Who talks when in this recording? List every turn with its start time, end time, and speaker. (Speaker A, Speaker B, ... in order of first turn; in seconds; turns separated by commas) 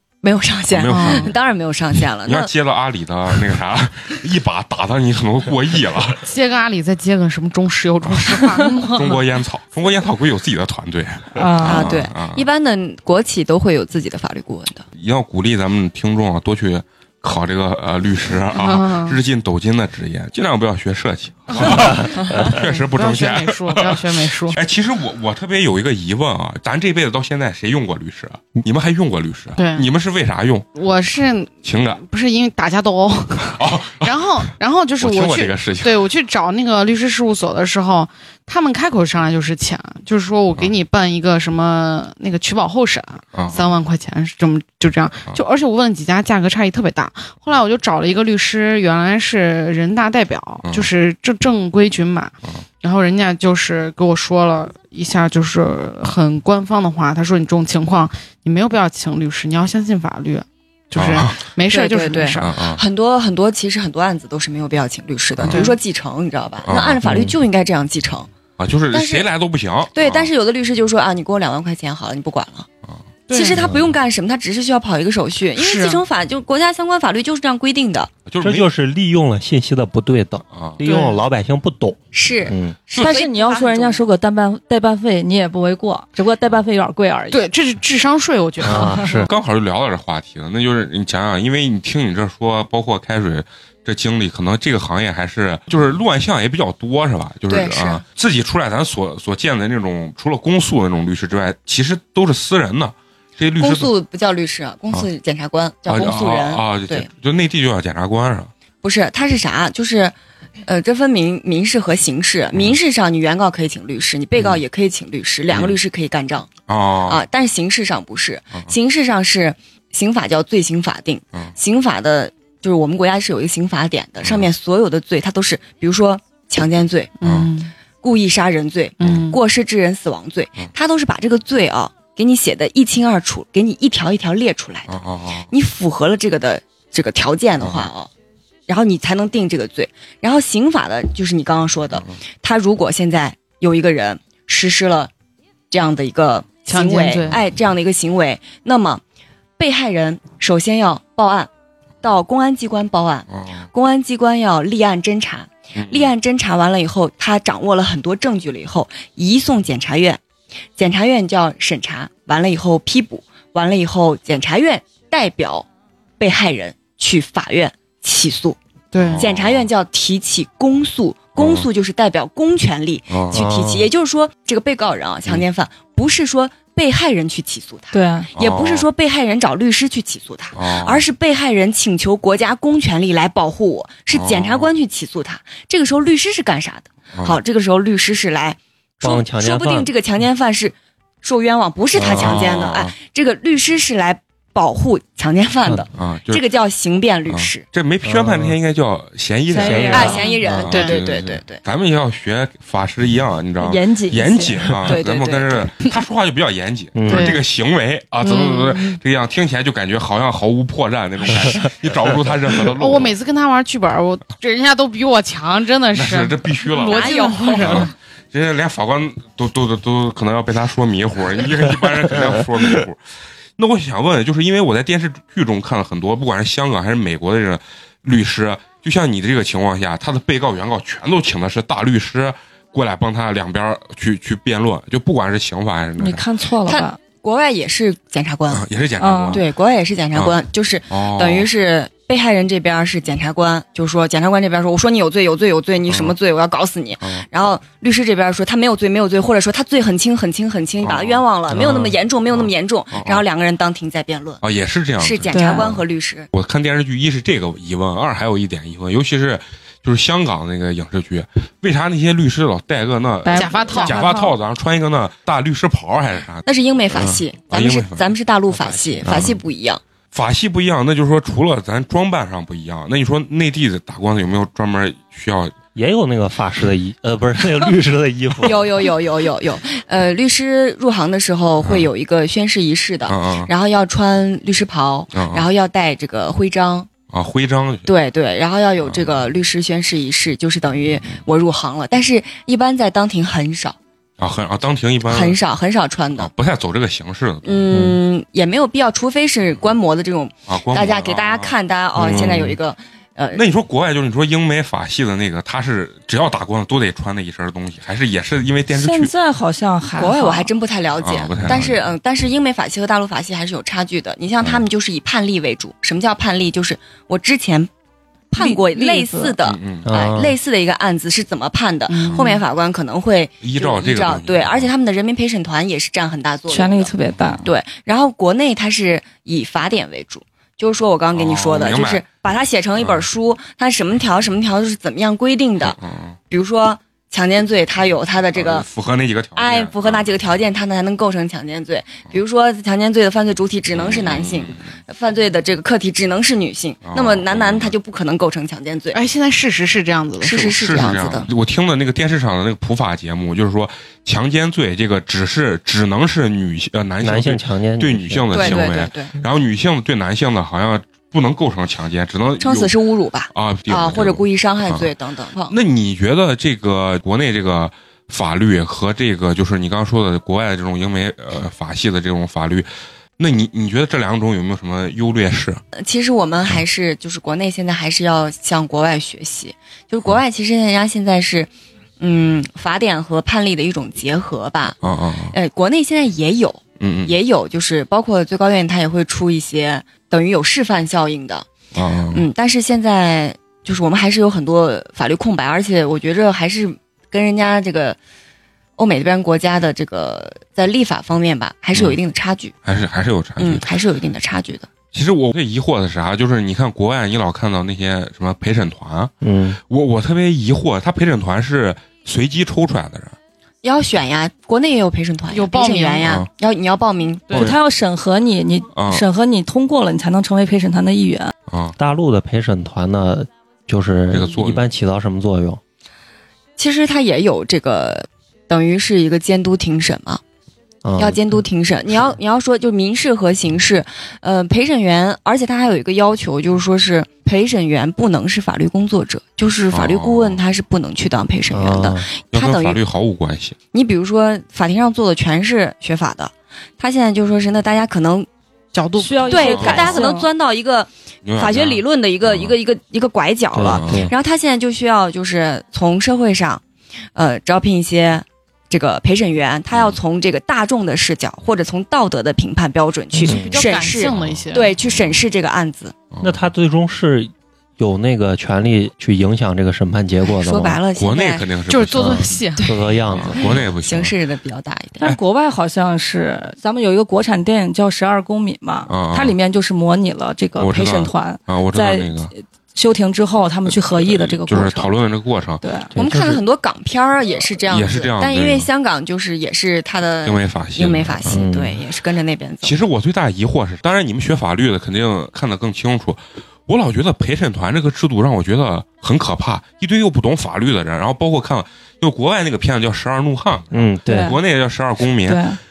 Speaker A: 0.2-2.5, Speaker B: 0.7-1.4, Speaker C: 0.9-1.3, Speaker B: 2.2-6.2, Speaker C: 6.2-9.2, Speaker B: 8.0-12.4, Speaker D: 11.3-12.0, Speaker A: 11.6-14.8, Speaker B: 14.9-30.7, Speaker C: 18.5-19.2, Speaker C: 21.6-24.6, Speaker C: 29.6-29.9, Speaker C: 30.7-62.6, Speaker B: 31.6-32.0, Speaker B: 33.5-34.2, Speaker B: 35.0-36.1, Speaker B: 43.3-43.7, Speaker B: 50.6-50.9, Speaker B: 60.9-61.4, Speaker A: 61.7-68.3, Speaker B: 62.4-62.8, Speaker B: 65.4-65.7, Speaker C: 65.5-65.8, Speaker B: 66.6-67.2, Speaker E: 67.0-67.3, Speaker B: 68.6-70.3, Speaker A: 68.9-69.3, Speaker A: 69.9-72.7, Speaker C: 73.3-73.7, Speaker A: 73.3-78.1, Speaker C: 75.5-76.0, Speaker B: 78.2-78.7, Speaker E: 78.4-82.8, Speaker B: 80.5-80.8, Speaker C: 80.8-81.2, Speaker A: 82.1-84.1, Speaker D: 83.0-87.5, Speaker C: 87.3-89.2, Speaker E: 88.6-89.3, Speaker D: 88.8-89.1, Speaker B: 89.2-103.9, Speaker A: 97.5-98.0, Speaker A: 103.6-107.1, Speaker B: 105.9-108.5, Speaker A: 108.8-116.5, Speaker B: 115.5-115.8, Speaker B: 116.7-117.2, Speaker A: 117.1-127.2, Speaker B: 124.2-124.5, Speaker C: 127.2-127.7, Speaker B: 127.2-127.5, Speaker A: 128.0-134.9, Speaker C: 129.0-129.4, Speaker B: 129.0-129.3, Speaker B: 134.9-135.5, Speaker A: 135.5-138.1, Speaker B: 137.6-137.9, Speaker A: 138.7-145.1, Speaker A: 145.7-149.0, Speaker C: 146.7-147.4, Speaker A: 149.6-151.5, Speaker A: 152.0-160.2, Speaker B: 153.3-153.7, Speaker B: 155.7-156.1, Speaker A: 160.8-165.7, Speaker A: 166.2-168.6, Speaker C: 168.9-169.3, Speaker B: 169.0-169.7, Speaker A: 169.2-197.6, Speaker B: 171.3-171.7, Speaker B: 173.1-173.4, Speaker E: 173.3-173.9, Speaker D: 177.9-178.3, Speaker B: 178.4-178.9, Speaker B: 180.5-181.0, Speaker B: 184.1-184.7, Speaker B: 187.1-187.4, Speaker E: 189.0-189.9, Speaker E: 191.9-192.5, Speaker B: 192.0-192.9, Speaker B: 195.9-196.4, Speaker B: 197.3-213.2, Speaker E: 198.0-198.6, Speaker D: 199.5-200.2, Speaker E: 199.5-200.7, Speaker A: 199.9-201.6, Speaker C: 200.0-200.9, Speaker D: 203.6-204.7, Speaker A: 204.8-205.7, Speaker E: 206.9-207.3, Speaker C: 207.1-207.4, Speaker C: 208.2-209.0, Speaker C: 212.8-217.9, Speaker B: 215.9-223.0, Speaker A: 216.9-217.6, Speaker B: 223.6-236.2, Speaker D: 236.0-237.0, Speaker A: 236.7-238.7, Speaker B: 238.5-239.4, Speaker D: 239.0-239.4, Speaker A: 239.3-254.4, Speaker B: 240.9-241.5, Speaker B: 245.9-246.1, Speaker B: 247.0-247.2, Speaker B: 250.8-253.2, Speaker E: 251.5-251.9, Speaker B: 254.4-268.1, Speaker A: 255.0-256.3, Speaker D: 255.3-255.7, Speaker D: 263.2-264.3, Speaker C: 263.3-264.2, Speaker A: 266.4-269.8, Speaker E: 268.5-269.4, Speaker B: 269.0-269.3, Speaker B: 270.1-275.5, Speaker E: 275.7-278.9, Speaker A: 278.4-286.9, Speaker B: 281.6-281.9, Speaker B: 283.1-283.5, Speaker B: 285.1-285.4, Speaker B: 287.1-287.9, Speaker A: 287.9-293.8, Speaker B: 288.8-289.2, Speaker B: 294.2-295.4, Speaker A: 295.0-296.3, Speaker B: 296.2-297.6, Speaker A: 297.4-303.4, Speaker E: 297.7-298.0, Speaker B: 300.5-302.5, Speaker E: 302.0-302.6, Speaker B: 303.3-309.1, Speaker D: 308.7-310.5, Speaker A: 310.0-317.7, Speaker B: 311.0-311.8, Speaker A: 318.3-326.9, Speaker D: 318.4-319.4, Speaker B: 319.4-319.9, Speaker E: 319.8-320.4, Speaker C: 321.9-322.4, Speaker B: 323.4-324.7, Speaker D: 326.5-327.4, Speaker B: 327.2-327.4, Speaker A: 327.4-335.8, Speaker B: 331.1-332.0, Speaker B: 332.8-333.0, Speaker B: 335.6-336.2, Speaker A: 336.3-338.7, Speaker B: 338.3-340.1, Speaker A: 339.4-349.0, Speaker B: 343.7-344.7, Speaker B: 346.8-347.7, Speaker C: 348.9-350.6, Speaker A: 350.2-351.3, Speaker B: 350.4-362.7, Speaker E: 357.0-358.7, Speaker A: 358.3-359.1, Speaker A: 362.4-365.6, Speaker B: 363.3-364.9, Speaker B: 365.5-375.6, Speaker A: 375.7-384.8, Speaker B: 384.8-385.3, Speaker A: 385.3-391.5, Speaker B: 386.8-387.1, Speaker B: 391.7-392.2, Speaker A: 392.1-398.0, Speaker A: 398.8-402.5, Speaker B: 402.6-403.6, Speaker A: 403.4-404.7, Speaker B: 404.9-409.1, Speaker E: 409.2-409.6, Speaker B: 409.7-413.1, Speaker A: 413.6-417.5, Speaker C: 415.3-416.1, Speaker B: 416.0-416.3, Speaker D: 417.3-421.3, Speaker B: 418.7-419.0, Speaker B: 421.5-421.8, Speaker E: 421.8-425.6, Speaker B: 424.1-424.6, Speaker A: 426.6-430.2, Speaker E: 430.8-431.4, Speaker A: 431.0-442.8, Speaker B: 439.7-440.4, Speaker E: 441.5-442.1, Speaker B: 442.3-443.6, Speaker A: 443.7-448.3, Speaker C: 448.7-449.9, Speaker D: 449.0-450.3, Speaker A: 449.3-456.6, Speaker B: 449.4-450.0, Speaker B: 451.2-452.5, Speaker E: 453.5-454.1, Speaker B: 453.6-454.1, Speaker A: 457.1-465.9, Speaker B: 459.7-460.0, Speaker E: 463.1-463.6, Speaker C: 463.3-464.7, Speaker B: 464.0-465.2, Speaker B: 466.1-466.5, Speaker E: 466.2-470.8, Speaker A: 470.2-471.5, Speaker B: 470.9-472.4, Speaker C: 471.7-472.7, Speaker E: 471.9-473.5, Speaker A: 472.6-475.1, Speaker B: 473.1-474.1, Speaker D: 475.0-484.9, Speaker B: 478.9-479.4, Speaker B: 480.6-482.3, Speaker B: 483.6-485.6, Speaker D: 485.6-485.9, Speaker E: 485.9-486.4, Speaker A: 486.0-492.8, Speaker B: 487.7-488.7, Speaker B: 490.2-491.4, Speaker E: 491.3-491.8, Speaker B: 492.6-505.4, Speaker E: 503.7-504.4, Speaker D: 504.1-504.4, Speaker D: 505.1-505.6